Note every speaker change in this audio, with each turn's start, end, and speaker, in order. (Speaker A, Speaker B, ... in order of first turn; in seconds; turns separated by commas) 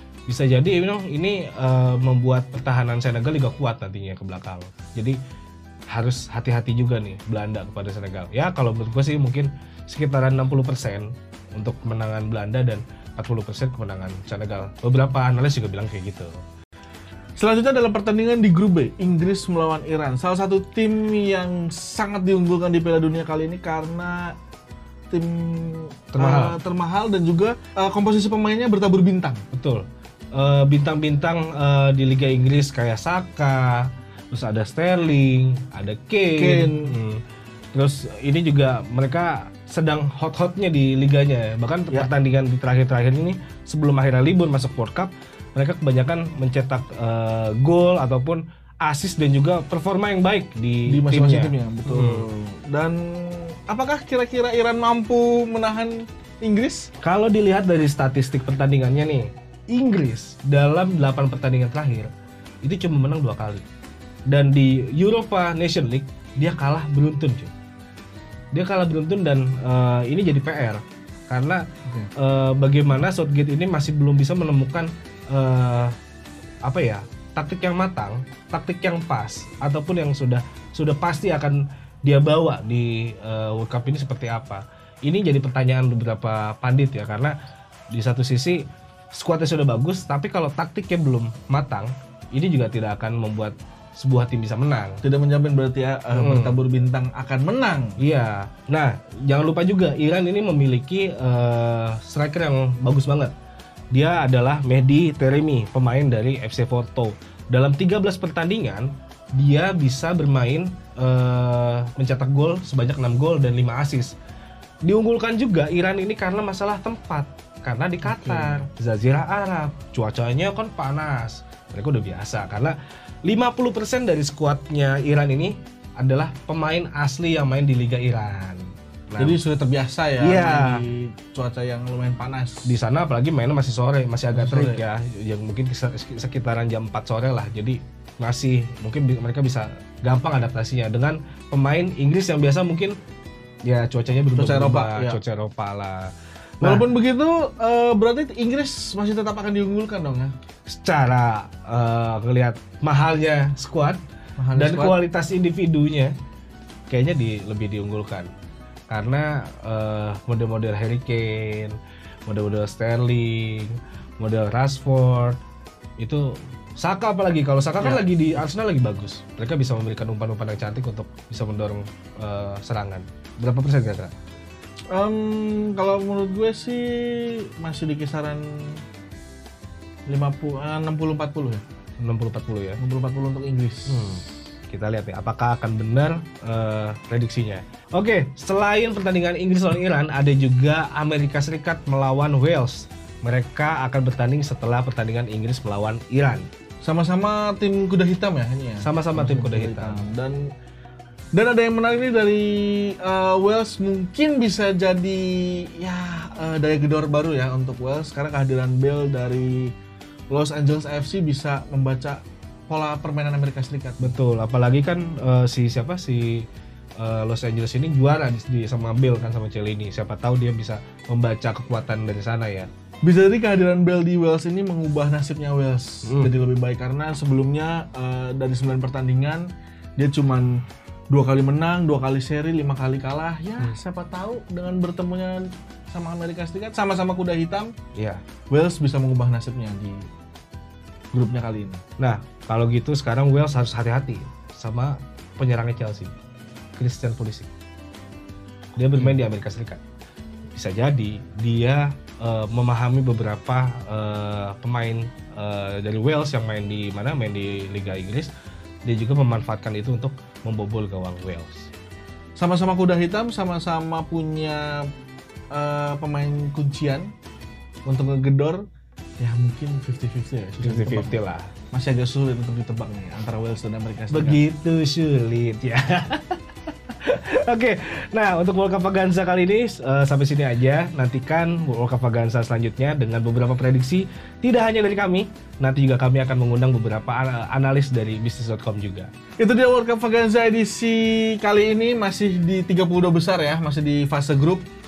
Speaker A: 0.3-5.2, Speaker A: 5.9-16.3, Speaker B: 17.4-24.3, Speaker B: 25.1-29.4, Speaker A: 26.1-26.6, Speaker A: 29.5-37.2, Speaker B: 36.4-36.9, Speaker A: 37.7-52.2, Speaker B: 50.9-56.9, Speaker A: 57.0-62.1, Speaker A: 62.6-63.6, Speaker A: 64.3-67.5, Speaker A: 68.5-71.6, Speaker A: 72.2-75.9, Speaker A: 76.6-87.3, Speaker A: 87.9-88.6, Speaker A: 89.1-95.0, Speaker B: 95.0-98.0, Speaker A: 96.1-96.6, Speaker A: 98.0-103.3, Speaker A: 103.9-114.1, Speaker A: 114.8-129.4, Speaker B: 118.0-118.7, Speaker B: 129.2-132.7, Speaker A: 130.2-130.8, Speaker A: 132.7-142.9, Speaker B: 134.3-134.8, Speaker A: 143.7-146.8, Speaker B: 144.3-145.2, Speaker B: 146.6-150.3, Speaker A: 150.7-154.0, Speaker B: 154.4-155.0, Speaker A: 154.5-156.1, Speaker A: 156.9-158.3, Speaker A: 158.9-165.4, Speaker A: 166.8-174.1, Speaker B: 167.8-168.4, Speaker B: 174.9-178.8, Speaker B: 180.1-181.6, Speaker A: 182.0-182.8, Speaker B: 182.8-184.2, Speaker A: 183.9-196.5, Speaker B: 196.8-200.4, Speaker A: 198.8-200.1, Speaker B: 201.3-209.7, Speaker B: 210.3-214.1, Speaker A: 214.0-216.4, Speaker A: 217.0-222.7, Speaker B: 223.0-229.4, Speaker A: 226.1-226.3, Speaker B: 230.0-230.6, Speaker B: 231.1-237.7, Speaker A: 237.9-238.2, Speaker B: 238.5-240.1, Speaker B: 241.1-241.8, Speaker A: 242.0-246.1, Speaker A: 246.8-247.5, Speaker A: 248.8-249.8, Speaker B: 248.9-249.2, Speaker A: 250.5-258.3, Speaker A: 258.9-261.7, Speaker B: 262.4-264.9, Speaker B: 265.5-267.1, Speaker B: 267.9-268.6, Speaker B: 269.2-271.2, Speaker A: 270.6-271.5, Speaker B: 271.7-274.4, Speaker A: 274.1-289.1, Speaker B: 289.4-294.6